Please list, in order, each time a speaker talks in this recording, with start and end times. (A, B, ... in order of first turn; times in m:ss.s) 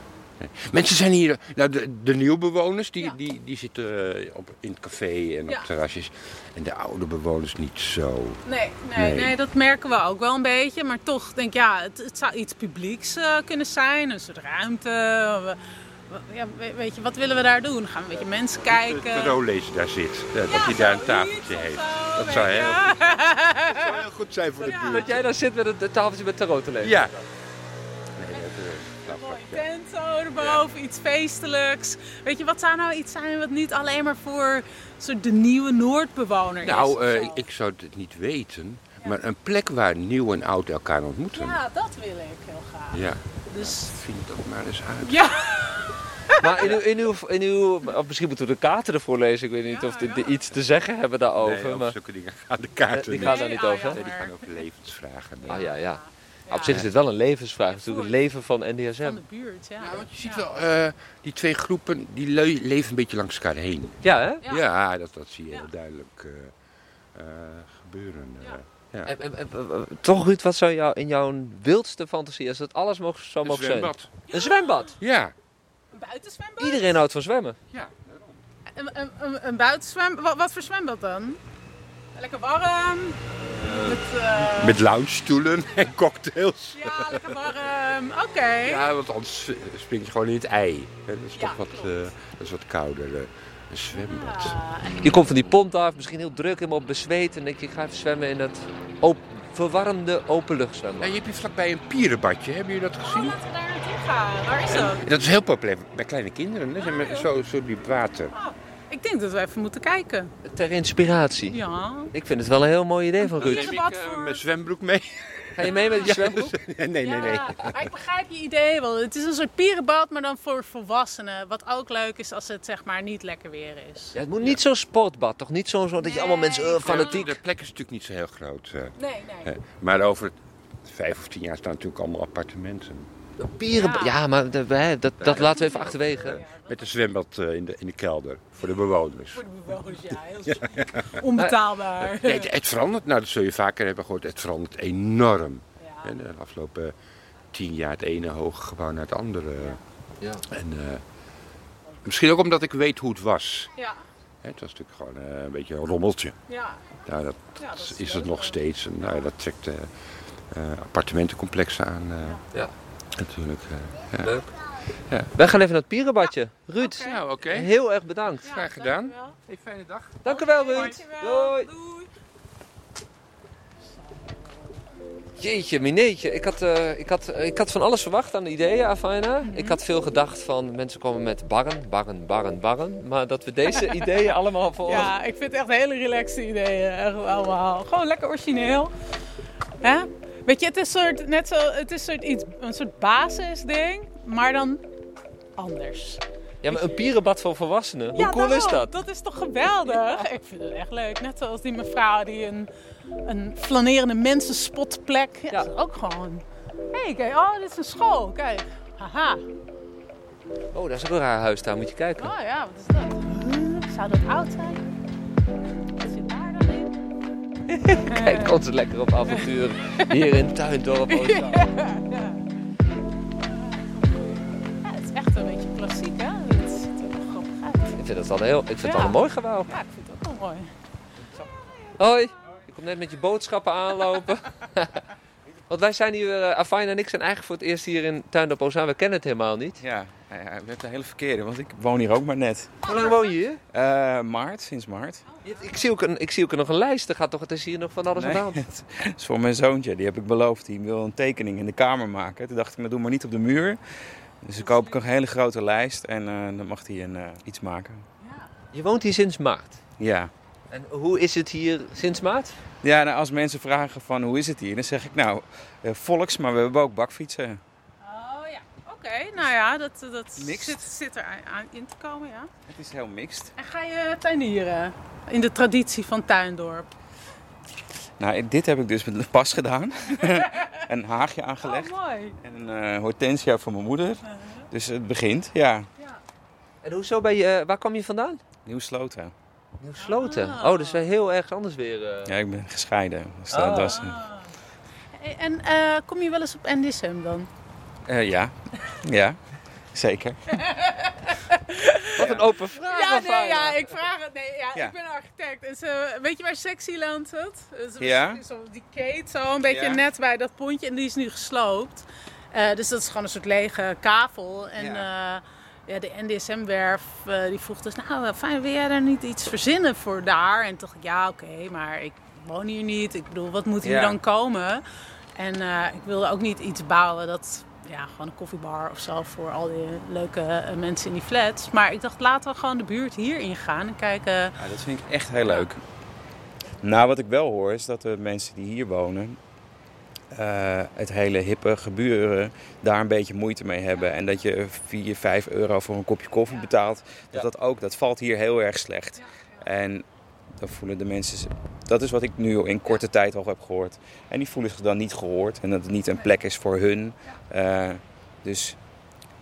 0:00.4-0:08.4 A
0:08.4-0:19.4 B
0:08.9-0:09.4 A
0:18.2-0:25.3 A
0:20.4-0:24.0 B
0:24.6-0:25.1 B
0:24.6-0:27.2 C
0:26.8-0:27.2 A
0:28.2-0:29.6 A
0:28.3-0:37.4 B
0:30.4-0:30.6 A
0:36.6-0:41.6 A
0:41.3-0:43.9 B
0:42.9-0:45.3 A
0:45.0-0:46.7 B
0:46.4-0:51.9 C
0:49.7-0:50.4 B
0:51.4-0:55.6 A
0:52.9-0:54.0 C
0:53.2-0:54.5 B
0:55.5-0:56.8 B
0:55.5-0:59.2 C
0:57.7-0:58.2 B
0:59.0-1:00.4 B
0:59.8-1:06.5 A
1:04.0-1:04.4 C
1:07.1-1:09.1 A
1:09.0-1:15.0 C
1:13.4-1:14.1 A
1:14.3-1:14.9 B
1:15.0-1:15.3 A
1:15.9-1:17.0 B
1:16.6-1:17.6 C
1:17.7-1:18.4 A
1:18.7-1:21.4 B
1:22.1-1:24.8 B
1:23.4-1:27.5 A
1:26.7-1:28.9 B
1:28.6-1:34.6 A
1:31.3-1:32.0 B
1:33.9-1:35.0 B
1:35.0-1:41.1 C
1:41.0-1:43.4 A
1:43.0-1:45.0 B
1:44.7-1:48.3 A
1:46.8-1:47.3 B
1:48.3-1:50.3 B
1:50.4-1:51.6 C
1:51.5-1:52.1 B
1:52.1-1:53.7 C
1:53.3-1:54.4 B
1:53.4-1:57.9 A
1:55.5-1:56.5 C
1:55.6-1:56.2 B
1:57.0-2:04.1 B
2:04.1-2:07.3 C
2:06.0-2:07.3 B
2:06.8-2:13.1 A
2:09.0-2:09.5 B
2:13.4-2:16.4 C
2:13.7-2:14.2 B
2:15.2-2:19.4 A
2:15.2-2:16.9 B
2:19.3-2:22.5 B
2:20.4-2:21.2 A
2:22.0-2:26.9 A
2:25.8-2:26.1 B
2:27.5-2:29.8 A
2:30.5-2:31.0 A
2:32.0-2:33.7 A
2:33.8-2:34.0 B
2:34.4-2:36.4 A
2:36.5-2:36.8 B
2:37.0-2:39.9 A
2:37.6-2:39.2 B
2:40.5-2:42.4 A
2:43.1-2:44.4 A
2:44.2-2:44.5 C
2:45.3-2:48.6 C
2:46.8-2:47.2 B
2:47.0-2:47.7 A
2:48.4-2:50.2 A
2:48.4-2:49.4 B
2:50.2-2:51.7 C
2:50.2-2:52.1 B
2:55.4-3:05.1 C
2:59.4-2:59.8 B
3:03.7-3:04.2 B
3:04.8-3:08.9 B
3:09.8-3:14.8 B
3:15.6-3:16.8 B
3:16.6-3:18.9 C
3:18.1-3:22.7 B
3:19.9-3:20.2 C
3:23.2-3:29.4 B
3:30.7-3:32.3 C
3:32.2-3:34.8 B
3:35.9-3:37.0 B
3:37.7-3:41.7 C
3:38.1-3:38.6 B
3:41.1-3:42.4 B
3:43.5-3:48.0 B
3:48.0-3:49.8 C
3:48.8-3:50.7 B
3:51.5-3:52.0 B
3:52.0-3:55.0 C
3:55.7-3:59.8 C
3:59.8-4:02.7 D
4:02.8-4:03.6 C
4:02.9-4:03.2 B
4:03.7-4:05.2 D
4:05.3-4:05.8 B
4:05.4-4:08.6 C
4:08.1-4:13.8 D
4:14.4-4:18.0 D
4:14.6-4:14.9 B
4:18.2-4:18.5 B
4:18.7-4:19.8 C
4:20.0-4:20.3 D
4:20.7-4:22.6 C
4:22.8-4:27.6 D
4:28.0-4:32.5 B
4:30.4-4:30.9 D
4:32.7-4:33.5 D
4:33.6-4:36.9 B
4:38.2-4:45.9 D
4:40.2-4:40.7 B
4:41.6-4:42.4 B
4:44.3-4:44.6 B
4:46.8-4:48.4 C
4:48.6-4:49.3 D
4:49.8-4:52.4 C
4:50.0-4:51.0 B
4:52.2-4:54.2 D
4:53.5-4:54.0 C
4:53.9-4:54.5 B
4:55.1-4:57.5 B
4:58.1-4:59.4 D
4:59.9-5:00.6 D
5:00.5-5:24.8 B
5:02.1-5:03.9 C
5:02.2-5:02.5 D
5:08.0-5:08.4 D
5:09.7-5:10.0 D
5:14.8-5:15.1 D
5:23.8-5:24.2 D
5:25.4-5:34.6 B
5:34.6-5:35.8 D
5:36.8-5:39.4 D
5:40.3-5:58.8 D
5:49.2-5:49.6 B